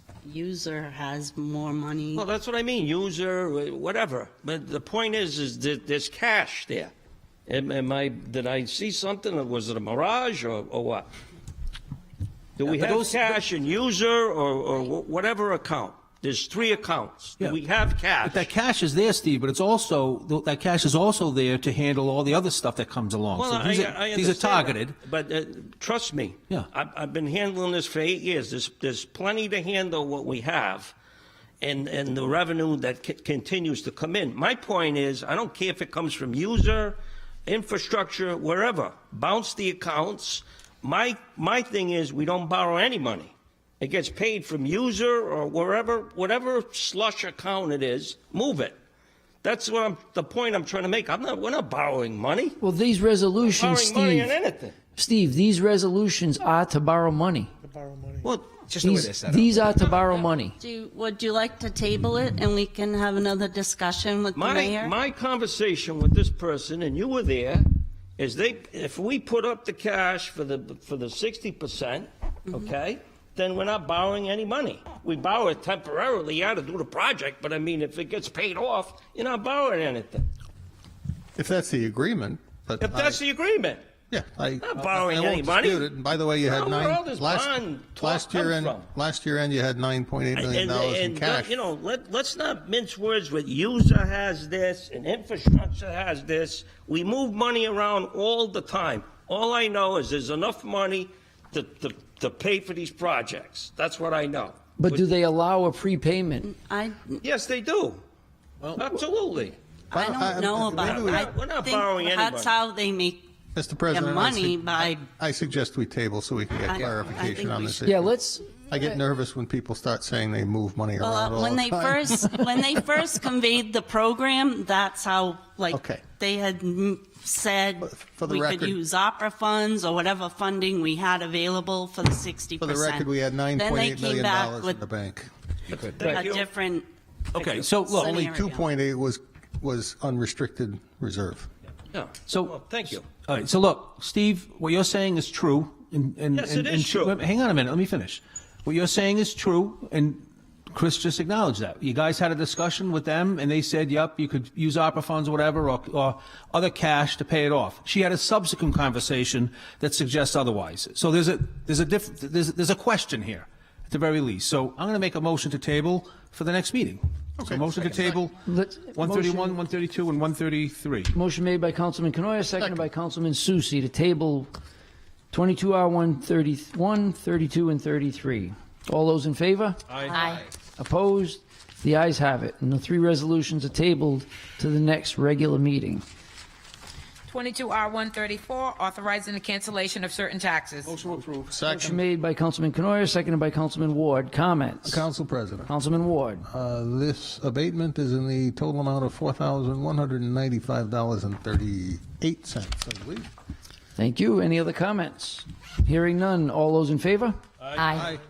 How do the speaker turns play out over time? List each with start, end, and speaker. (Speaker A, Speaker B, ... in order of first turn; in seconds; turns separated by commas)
Speaker A: 0.2-2.3, Speaker B: 2.1-6.9, Speaker B: 7.5-11.1, Speaker B: 12.6-18.5, Speaker C: 12.6-13.4, Speaker C: 18.2-25.0, Speaker B: 23.4-30.9, Speaker B: 31.6-48.8, Speaker B: 49.4-52.6, Speaker D: 52.6-54.3, Speaker B: 53.4-54.8, Speaker D: 55.0-57.5, Speaker E: 57.9-58.1, Speaker B: 58.2-58.5, Speaker C: 58.6-59.6, Speaker D: 58.8-60.6, Speaker A: 60.6-65.0, Speaker B: 64.3-80.3, Speaker E: 81.4-83.2, Speaker B: 82.8-83.8, Speaker E: 84.1-91.5, Speaker B: 84.6-88.9, Speaker B: 90.3-105.0, Speaker D: 104.8-106.5, Speaker A: 106.5-107.2, Speaker B: 107.2-108.0, Speaker B: 108.8-109.6, Speaker E: 109.9-111.3, Speaker A: 109.9-113.3, Speaker B: 110.8-112.5, Speaker E: 113.5-118.1, Speaker A: 113.9-115.0, Speaker A: 116.7-117.8, Speaker D: 117.8-118.5, Speaker E: 118.7-122.6, Speaker A: 121.0-134.8, Speaker E: 125.7-126.0, Speaker E: 127.8-128.8, Speaker E: 132.6-135.3, Speaker B: 135.7-136.5, Speaker A: 136.0-138.7, Speaker B: 137.4-137.7, Speaker C: 137.5-138.2, Speaker E: 137.9-141.5, Speaker B: 141.9-143.1, Speaker C: 142.3-142.6, Speaker C: 143.1-168.4, Speaker B: 146.3-147.2, Speaker E: 167.4-167.7, Speaker D: 168.4-169.6, Speaker C: 168.9-171.1, Speaker D: 171.1-174.5, Speaker D: 175.3-180.0, Speaker C: 179.9-180.3, Speaker D: 180.8-186.0, Speaker F: 187.3-191.0, Speaker C: 190.9-191.5, Speaker E: 191.5-192.0, Speaker D: 191.7-195.1, Speaker E: 194.8-195.7, Speaker D: 195.6-196.4, Speaker E: 196.5-203.3, Speaker D: 203.9-207.4, Speaker E: 207.9-208.2